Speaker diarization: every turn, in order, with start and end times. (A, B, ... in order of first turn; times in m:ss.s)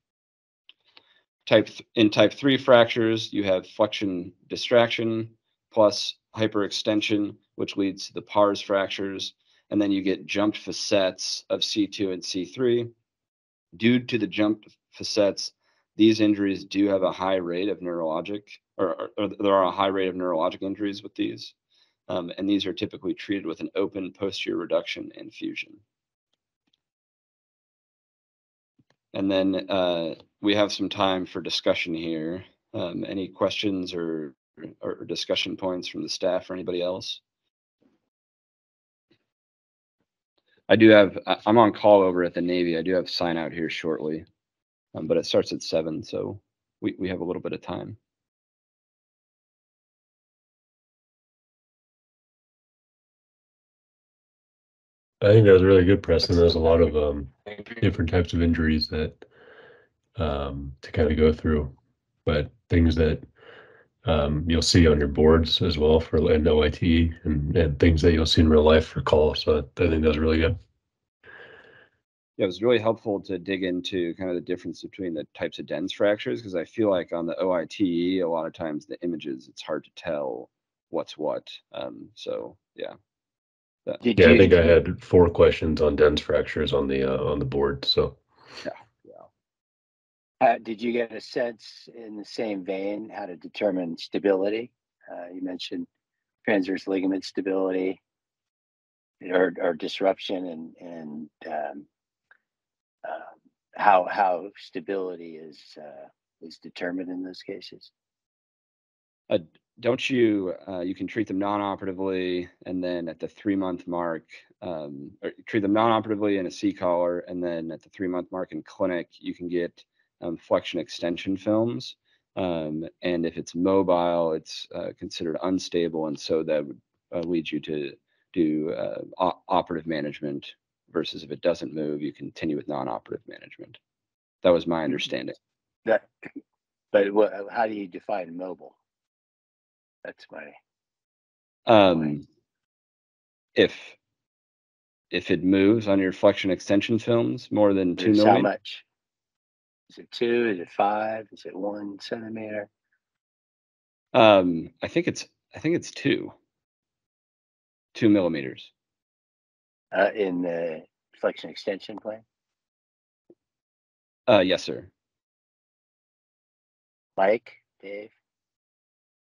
0:01.4-0:12.9 A
0:13.7-0:21.5 A
0:22.1-0:25.8 A
0:29.1-0:37.2 A
0:40.7-0:44.2 A
0:44.9-0:48.0 A
0:55.2-0:59.2 B
1:00.2-1:03.2 B
1:04.0-1:10.6 B
1:12.4-1:22.9 A
1:24.0-1:24.7 C
1:24.2-1:28.2 B
1:28.6-1:29.2 A
1:30.4-1:35.9 C
1:36.4-1:38.0 C
1:39.2-1:41.9 C
1:43.0-1:47.9 C
1:49.3-2:13.8 A
2:14.4-2:15.4 A
2:16.9-2:18.8 C
2:20.0-2:20.6 C
2:21.7-2:22.2 A
2:23.6-2:24.0 A
2:25.1-2:28.5 A
2:28.0-2:28.8 C
2:29.9-2:32.7 C
2:34.1-2:36.3 A
2:37.9-2:38.7 A
2:39.9-2:42.2 C
2:44.3-2:44.9 A
2:47.2-2:48.1 C